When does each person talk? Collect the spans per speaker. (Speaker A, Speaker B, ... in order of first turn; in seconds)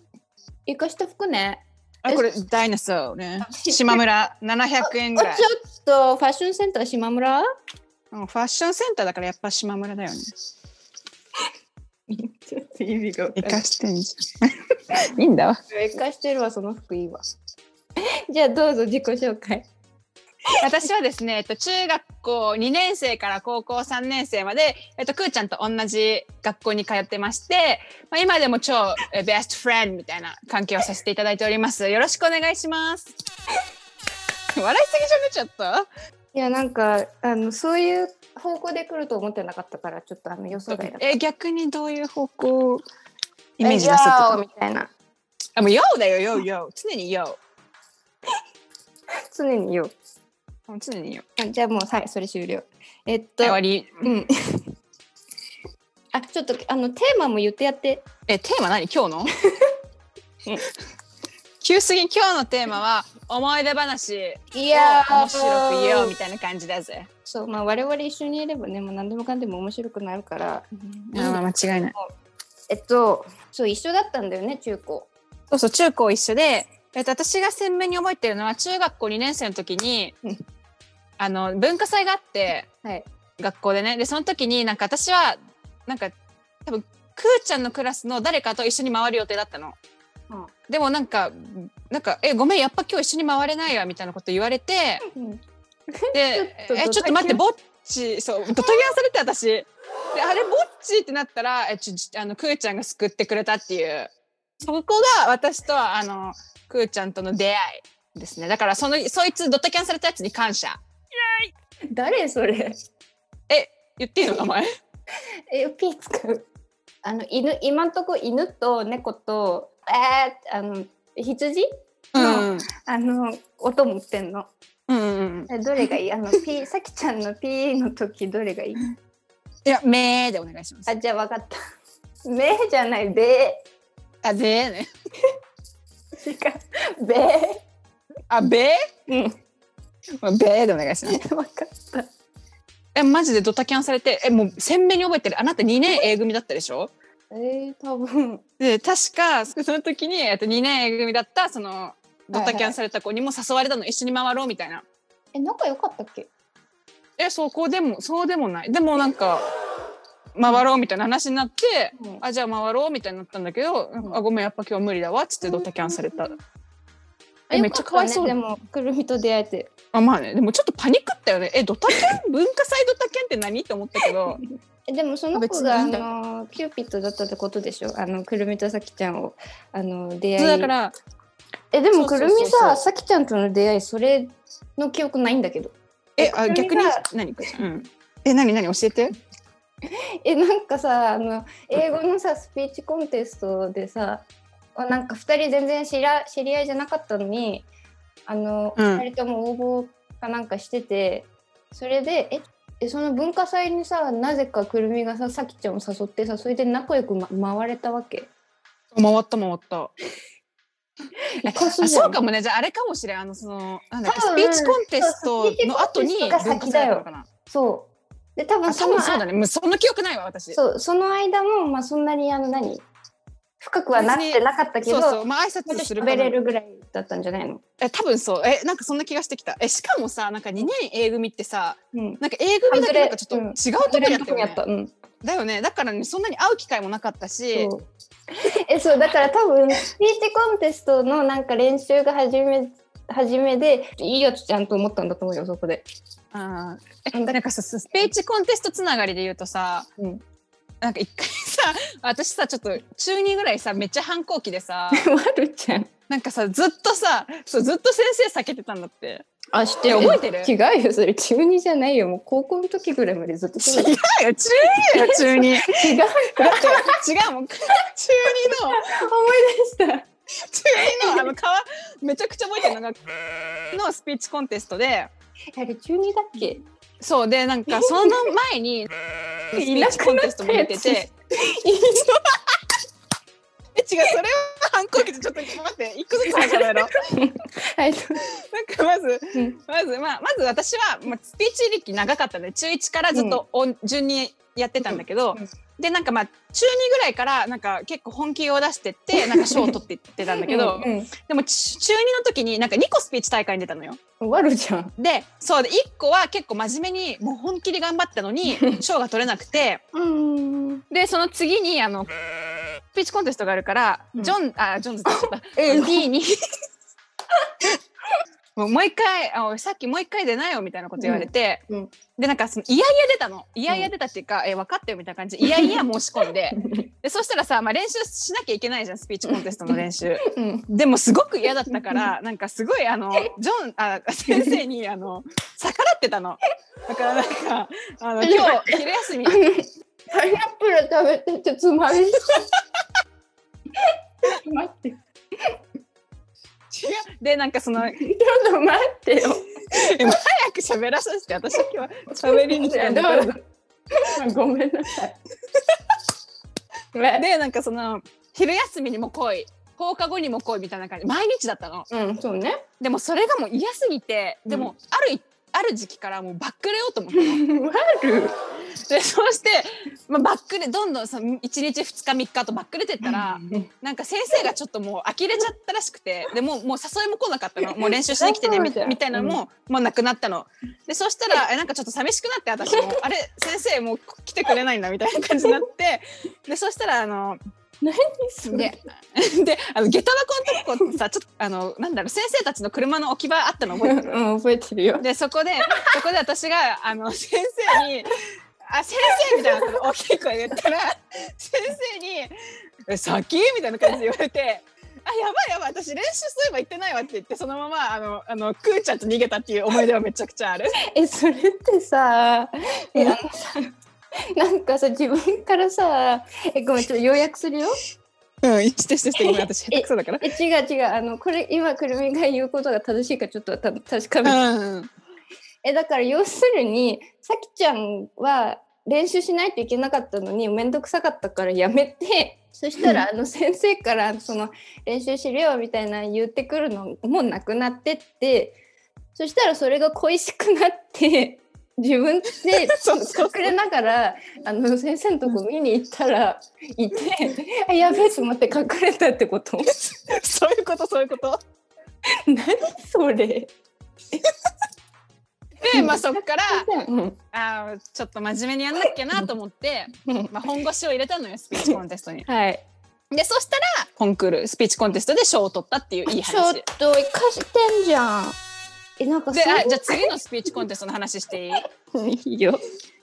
Speaker A: 0.7-2.3, 3.5-4.0, 4.8-7.4, 12.1-13.6, 15.7-17.2, 18.0-19.7, 36.3-41.1, 43.6-44.9, 49.3-49.9, 51.4-54.6, 56.1-58.0, 59.4-59.8, 64.5-66.1, 67.2-71.4, 72.7-75.1, 95.0-97.4, 111.9-112.8, 115.5-116.5, 117.0-124.5, 125.5-128.9, 130.9-131.6, 132.2-133.6, 136.2-137.6, 139.1-139.4, 141.1-142.1, 147.3-148.4, 152.3-152.8, 155.3-156.3, 161.9-162.2, 165.4-166.3, 167.5-169.7, 174.9-180.7, 181.7-187.6, 189.9-197.7, 198.3-208.3, 211.3-212.2, 214.1-219.2, 220.5-222.8, 223.6-227.6, 231.9-234.9, 237.6-245.9, 247.1-247.4, 254.9-255.9, 259.5-263.9, 264.7-267.0, 268.5-270.1, 270.8-271.3, 275.6-276.6, 277.7-278.2, 279.5-282.4, 286.3-288.2, 289.3-289.6, 293.1-293.4, 299.2-299.7, 300.4-301.1, 304.2-304.9, 308.5-308.8, 309.9-310.8, 315.1-316.1, 321.0-321.9, 325.4-325.7, 326.6-326.8, 329.3-330.7, 334.3-334.6, 338.2-342.5, 343.8-345.6, 347.8-350.1, 352.2-353.4, 353.9-355.2, 356.9-357.2, 361.9-362.6, 367.1-368.4, 373.0-373.7, 377.7-379.4, 387.8-388.7, 393.8-395.1, 395.7-396.0, 399.2-399.7, 410.9-413.7, 414.4-417.8, 419.2-424.4, 425.6-438.6, 439.2-449.9, 452.1-453.5, 455.6-457.2, 460.1-460.3, 462.3-462.6, 466.1-468.4, 469.0-470.1, 471.9-472.6
Speaker B: 2.0-5.5, 8.1-10.3, 13.3-15.6, 20.6-33.1, 34.5-35.9, 40.7-42.8, 43.6-44.4, 45.5-47.4, 50.7-51.2, 53.4-54.0, 58.3-59.3, 61.6-67.1, 71.1-71.9, 75.5-80.2, 81.2-82.7, 83.4-89.8, 90.7-95.0, 96.1-111.5, 113.5-114.7, 122.1-122.7, 124.9-125.5, 129.6-130.9, 134.2-134.9, 138.3-138.8, 140.2-141.2, 142.9-146.9, 148.6-154.8, 157.2-159.4, 160.3-166.4, 167.5-168.3, 169.9-174.4, 175.3-176.0, 180.4-180.9, 181.9-182.8, 186.2-189.1, 198.8-199.0, 208.9-209.9, 211.4-217.3, 218.7-220.6, 223.9-226.4, 227.8-234.6, 235.2-237.7, 246.3-249.9, 250.8-255.1, 256.1-259.2, 259.9-260.5, 263.6-265.8, 266.4-268.9, 270.4-275.1, 277.0-281.1, 283.8-287.0, 288.2-304.0, 305.0-309.8, 310.9-316.4, 318.6-321.6, 322.2-339.4, 346.7-348.1, 349.7-353.4, 357.1-361.9, 362.8-367.4, 368.8-387.4, 388.4-394.1, 395.0-402.3, 402.9-410.8, 418.4-420.3, 424.2-424.9, 442.5-443.6, 449.7-451.4, 455.6-456.7, 457.3-462.2, 463.1-466.6, 469.3-471.6